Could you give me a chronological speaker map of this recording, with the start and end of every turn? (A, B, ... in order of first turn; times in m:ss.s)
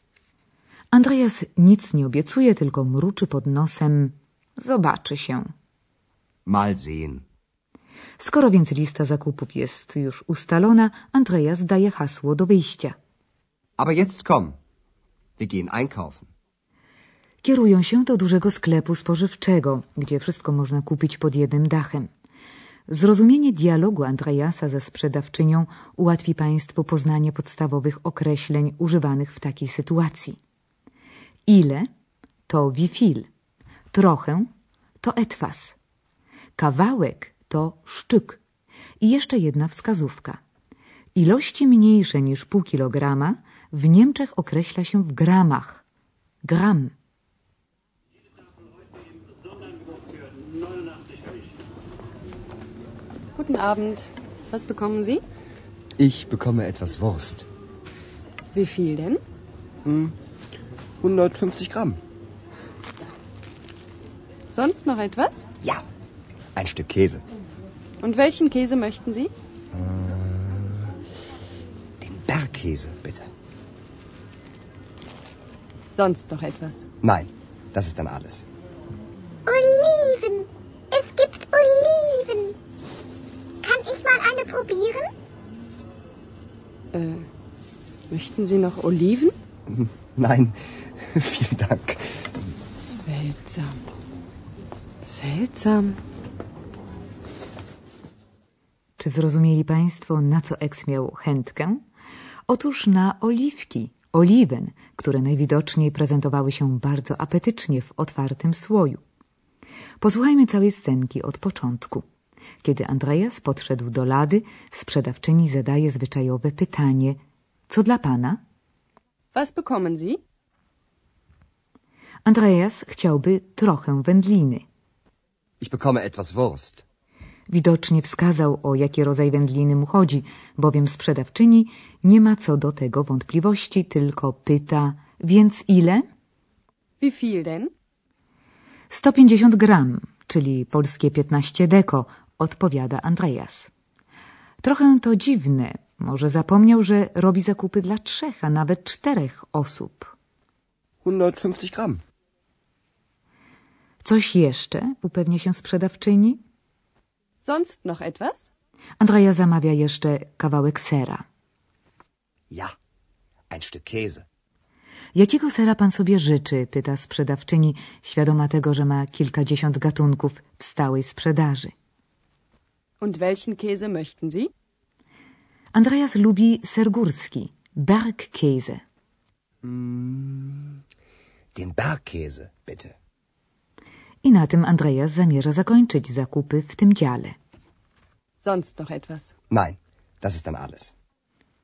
0:00.9-0:05.5 A
0:06.4-0:07.2 B
0:08.2-0:13.0 A
0:13.8-0:14.6 B
0:15.4-0:16.3 B
0:17.4-0:22.1 A
0:22.9-0:30.4 A
0:31.5-0:31.9 A
0:32.5-0:33.3 A
0:33.9-0:34.5 A
0:35.0-0:35.8 A
0:36.6-0:38.4 A
0:39.0-0:40.4 A
0:41.1-0:45.8 A
0:46.4-0:46.9 A
0:53.4-0:55.2 C
0:56.0-0:57.5 B
0:58.5-0:59.2 C
0:59.8-1:00.2 B
1:01.0-1:02.0 B
1:04.5-1:05.4 C
1:06.6-1:07.2 B
1:08.0-1:09.3 C
1:09.7-1:10.8 B
1:12.0-1:13.3 B
1:15.9-1:16.9 C
1:17.0-1:18.4 B
1:19.4-1:22.6 D
1:23.6-1:25.1 D
1:26.9-1:27.2 C
1:28.1-1:29.4 C
1:29.7-1:32.2 B
1:32.8-1:33.8 C
1:35.0-1:36.0 C
1:39.0-1:41.8 A
1:42.5-1:49.0 A
1:50.0-1:52.0 A
1:52.6-1:58.4 A
1:59.3-2:00.2 C
2:02.2-2:04.6 A
2:05.6-2:06.8 B
2:07.5-2:16.0 A
2:17.0-2:17.7 C
2:18.9-2:23.7 A
2:24.6-2:30.1 A
2:31.0-2:32.0 B
2:34.0-2:36.4 A
2:37.4-2:38.5 C
2:39.0-2:41.2 A
2:43.5-2:44.2 B
2:45.1-2:51.7 A
2:53.0-2:54.5 C
2:55.7-2:58.8 A
2:59.6-3:00.8 B
3:01.6-3:03.0 B
3:04.2-3:07.4 A
3:08.4-3:09.3 C
3:09.5-3:10.9 B